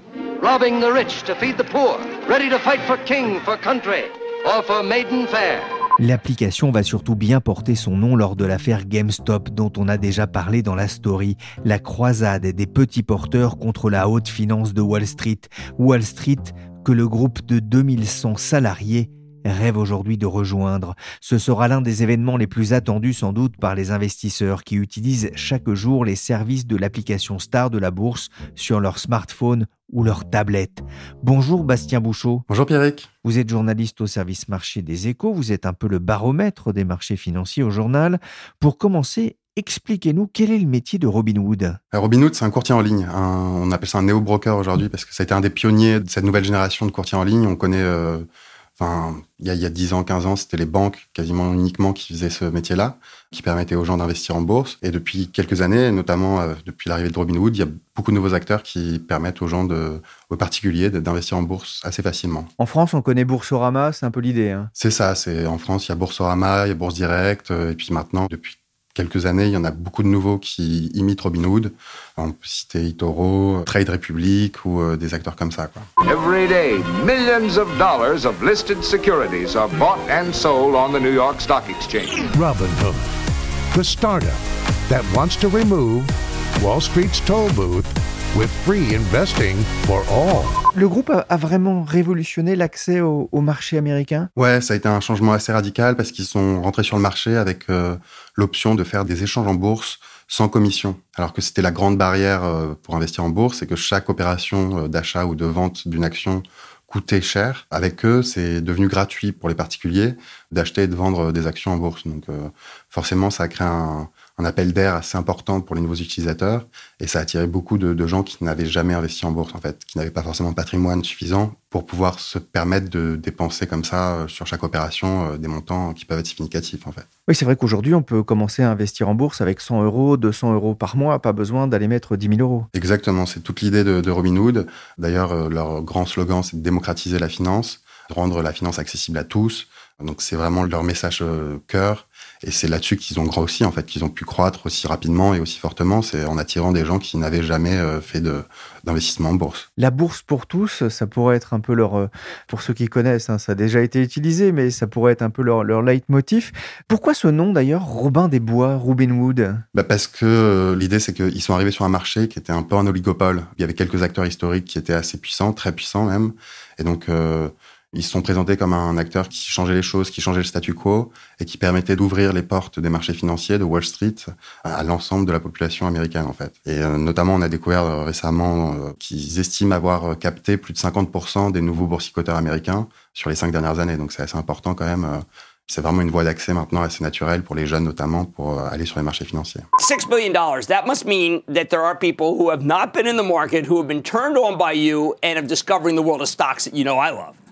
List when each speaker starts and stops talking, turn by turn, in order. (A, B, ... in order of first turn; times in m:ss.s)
0:00.4-0:05.7 A
0:06.0-0:32.4 B
0:32.5-0:33.1 C
0:33.2-0:41.8 B
0:41.9-1:02.5 C
1:02.6-1:04.7 B
1:04.8-1:15.9 C
1:16.0-1:22.3 D
1:22.3-1:23.0 E
1:23.7-1:30.6 E
1:30.7-1:34.3 B
1:34.4-2:07.1 C
2:07.3-2:12.7 B
2:12.7-2:29.7 C
2:29.8-2:39.6 B
2:39.7-3:09.7 C
3:09.8-3:17.4 F